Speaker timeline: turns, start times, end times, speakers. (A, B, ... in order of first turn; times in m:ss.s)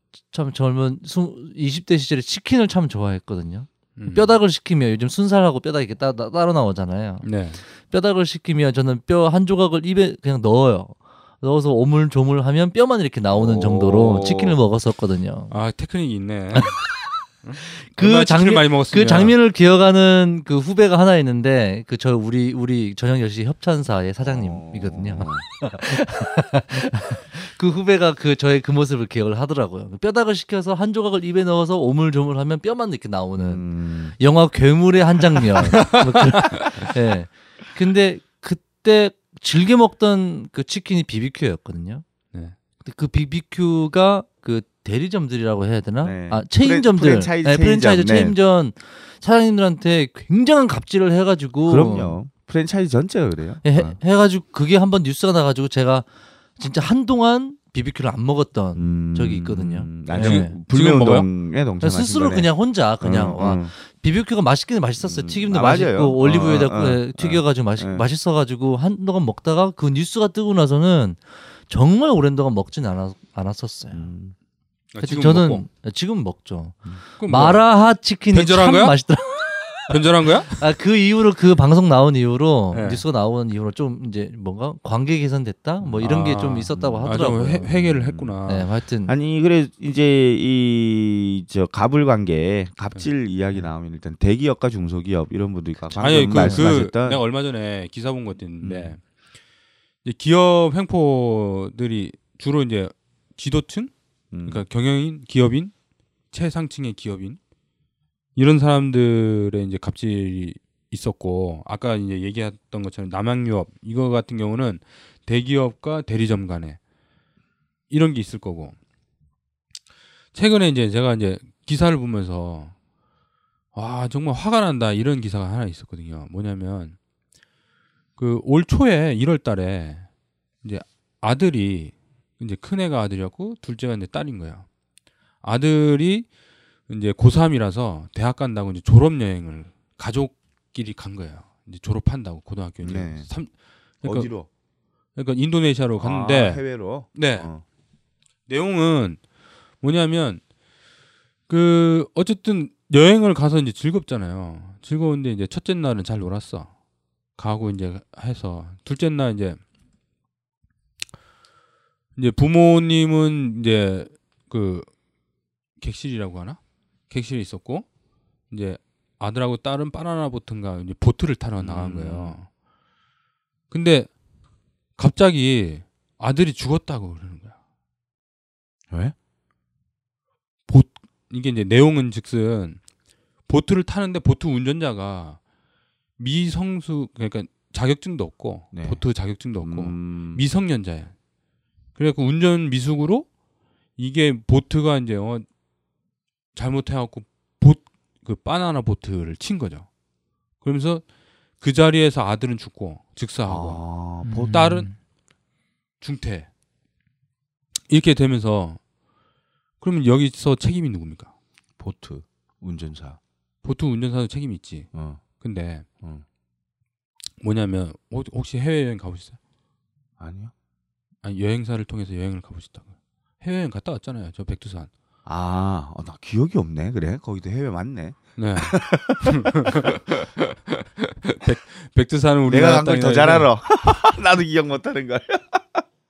0:00.3-0:15.5 A
0:04.0-0:04.4 B
0:07.2-0:07.6 B
0:13.3-0:14.6 C
0:15.5-0:16.8 B
0:17.4-0:19.3 B
0:17.8-0:33.6 A
0:24.2-0:25.4 C
0:33.4-0:34.2 C
0:34.2-0:42.0 A
0:35.8-0:36.7 B
0:36.4-0:36.9 C
0:42.8-0:52.2 A
0:46.0-0:48.4 C
0:51.6-0:54.0 C
0:53.6-0:56.0 A
0:56.6-1:00.6 A
0:58.8-1:03.7 C
1:00.1-1:01.3 B
1:01.8-1:14.1 A
1:05.0-1:08.1 C
1:13.9-1:14.4 C
1:14.9-1:15.6 B
1:15.0-1:27.7 A
1:17.2-1:19.0 B
1:19.9-1:20.6 B
1:22.7-1:23.0 B
1:25.8-1:26.1 C
1:26.0-1:28.7 B
1:26.7-1:28.4 C
1:28.4-1:29.1 A
1:29.0-1:37.2 C
1:35.8-1:36.7 A
1:36.0-1:39.0 B
1:38.6-1:39.0 C
1:40.0-1:45.7 B
1:44.3-1:44.6 C
1:46.3-1:47.4 B
1:48.4-1:56.8 B
1:57.9-1:58.8 B
2:00.3-2:02.7 B
2:03.7-2:07.0 B
2:08.2-2:10.1 B
2:10.6-2:14.7 B
2:15.4-2:16.3 B
2:16.9-2:24.4 B
2:22.8-2:23.3 C
2:24.0-2:24.5 C
2:25.2-2:27.5 B
2:26.0-2:27.6 C
2:28.5-2:29.2 B
2:29.8-2:30.4 B
2:31.5-2:36.7 B
2:37.4-2:39.6 B
2:42.1-2:44.9 B
2:45.8-2:47.9 B
2:48.5-2:52.5 B
2:51.6-2:52.4 C
2:53.7-2:54.1 B
2:55.0-2:57.5 B
2:58.9-2:59.1 C
3:00.7-3:02.8 B
3:03.5-3:05.4 B
3:06.2-3:11.1 B
3:08.7-3:09.0 C
3:09.6-3:10.4 C
3:12.0-3:13.3 B
3:14.0-3:15.4 B
3:16.5-3:19.9 B
3:20.6-3:21.0 B
3:21.6-3:23.8 B
3:23.4-3:24.8 C
3:24.2-3:24.9 A
3:24.4-3:24.9 B
3:26.0-3:26.5 B
3:27.9-3:28.8 B
3:29.8-3:31.3 B
3:31.8-3:33.2 C
3:33.6-3:35.9 B
3:34.9-3:35.2 C
3:37.4-3:39.4 B
3:40.2-3:40.5 C
3:41.2-3:42.9 B
3:43.4-3:44.9 B
3:45.2-3:50.0 C
3:48.4-3:53.5 B
3:52.5-3:55.8 C